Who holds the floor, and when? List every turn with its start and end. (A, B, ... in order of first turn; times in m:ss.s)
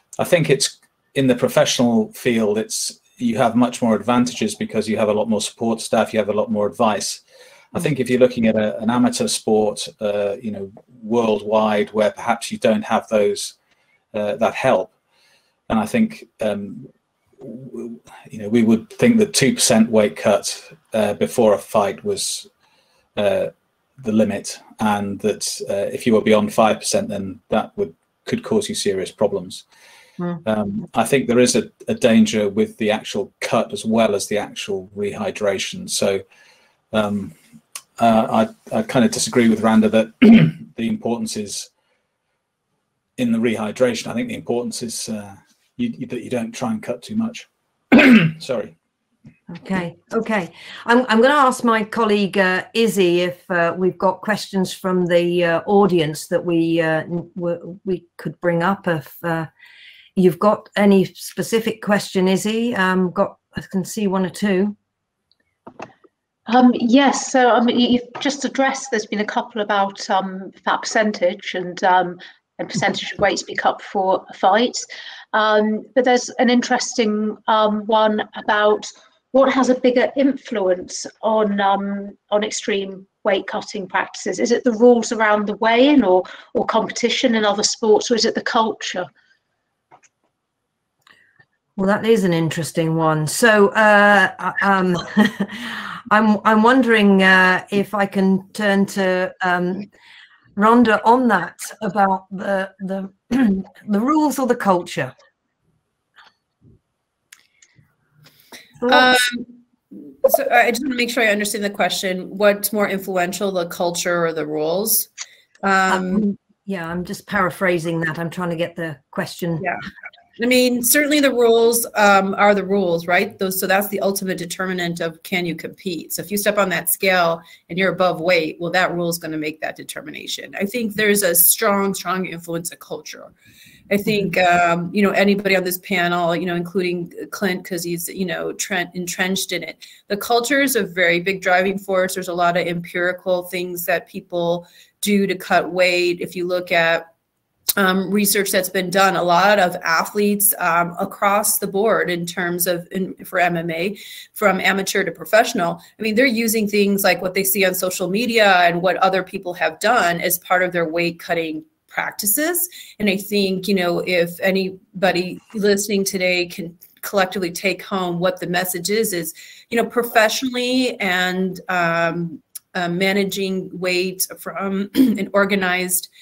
0:00.2-0:07.2 A
0:07.7-0:13.6 A
0:14.1-0:14.9 A
0:15.7-0:16.9 A
0:17.4-0:22.5 A
0:23.2-0:29.6 A
0:30.4-0:36.2 A
0:36.9-0:37.4 A
0:38.0-0:41.7 A
0:43.2-0:48.8 A
0:49.5-0:59.5 B
1:00.2-1:04.8 B
1:06.5-1:29.1 C
1:31.8-1:39.9 B
1:40.6-1:45.1 B
1:48.8-1:49.1 B
1:48.9-1:49.6 D
1:50.2-1:55.1 D
1:55.6-1:56.3 D
1:55.9-1:59.7 B
2:00.4-2:13.3 D
2:13.9-2:27.1 D
2:27.8-2:56.1 D